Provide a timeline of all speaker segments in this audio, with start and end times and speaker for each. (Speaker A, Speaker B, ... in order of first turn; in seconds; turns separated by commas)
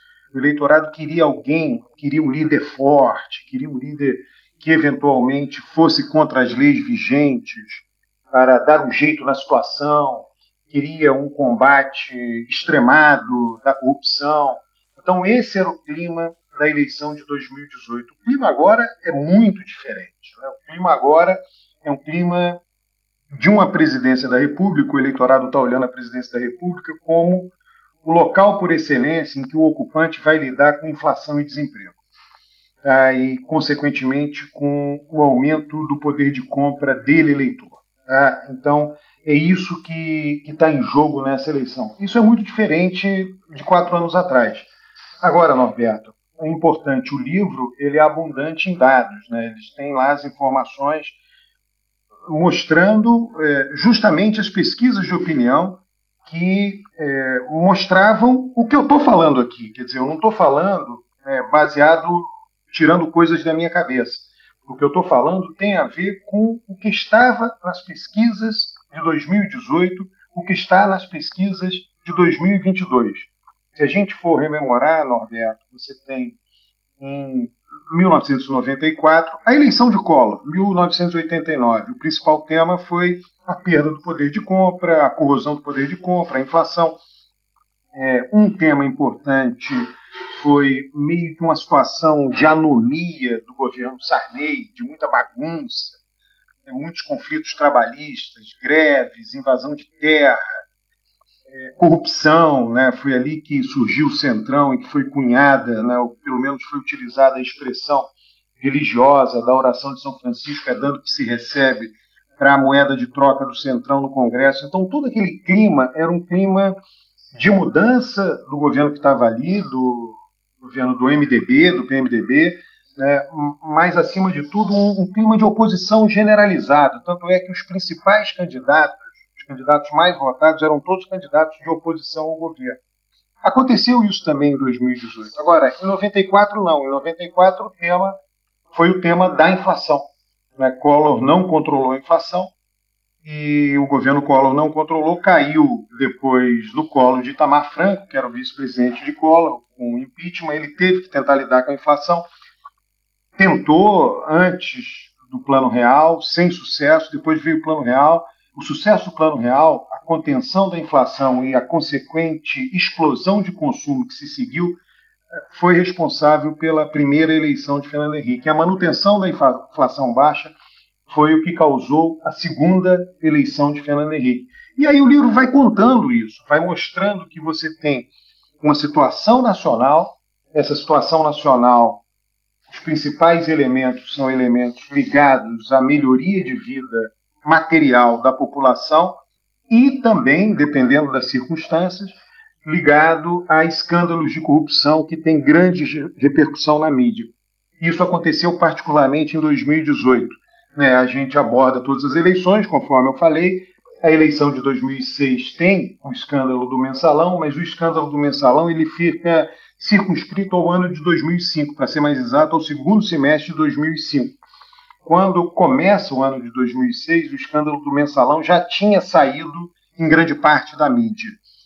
Speaker A: 0.3-22.6, Speaker A: 23.3-27.5, Speaker A: 28.0-32.0, Speaker A: 32.8-44.7, Speaker A: 45.2-51.2, Speaker A: 52.3-76.4, Speaker A: 77.0-87.0, Speaker A: 87.9-96.0, Speaker A: 96.7-100.4, Speaker A: 101.5-116.7, Speaker A: 117.3-132.8, Speaker A: 133.4-138.2, Speaker A: 138.7-140.1, Speaker A: 140.6-142.5, Speaker A: 143.2-152.2, Speaker A: 153.4-164.8, Speaker A: 165.5-170.5, Speaker A: 171.1-178.1, Speaker A: 178.6-182.0, Speaker A: 182.7-214.4, Speaker A: 215.0-221.4